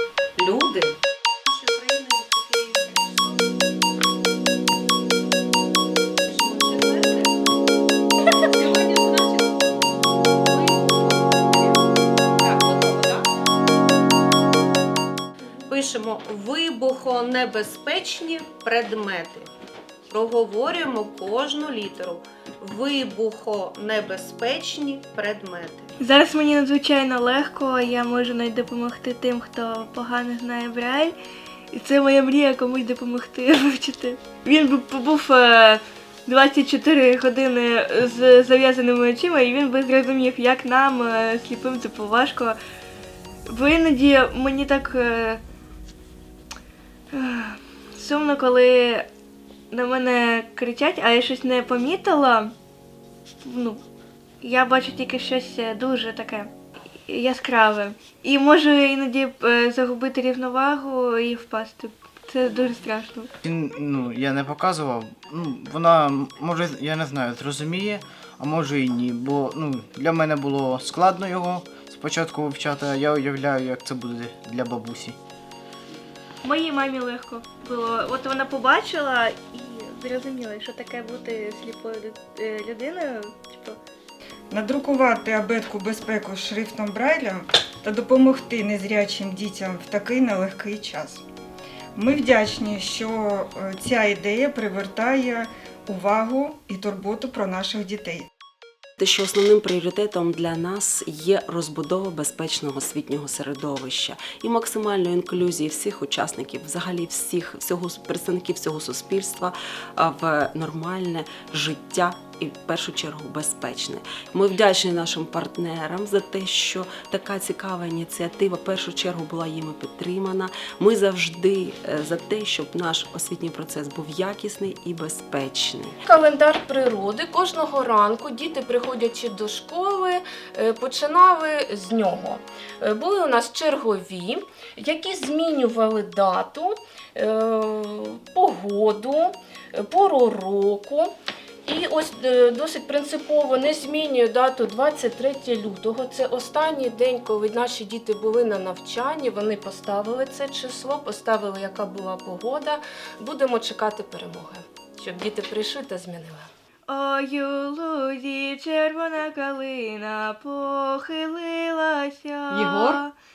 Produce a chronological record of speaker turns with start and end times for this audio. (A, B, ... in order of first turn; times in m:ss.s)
0:00.4-0:03.4 A
0:06.3-0:07.3 A
0:08.5-0:09.6 A
0:10.4-0:13.3 A
0:15.7-0:19.5 A
0:20.1-0:25.9 A
0:26.0-0:31.2 B
0:31.7-0:42.6 B
0:43.5-0:45.4 B
0:47.1-0:49.1 B
0:49.7-0:52.5 B
0:53.4-0:53.8 B
0:54.4-0:56.5 B
0:57.1-1:03.3 B
1:03.4-1:15.2 C
1:16.4-1:23.8 B
1:24.5-1:31.2 D
1:32.0-1:38.3 D
1:39.0-2:06.0 E
2:06.1-2:21.1 F
2:21.7-2:36.5 F
2:36.9-2:43.1 B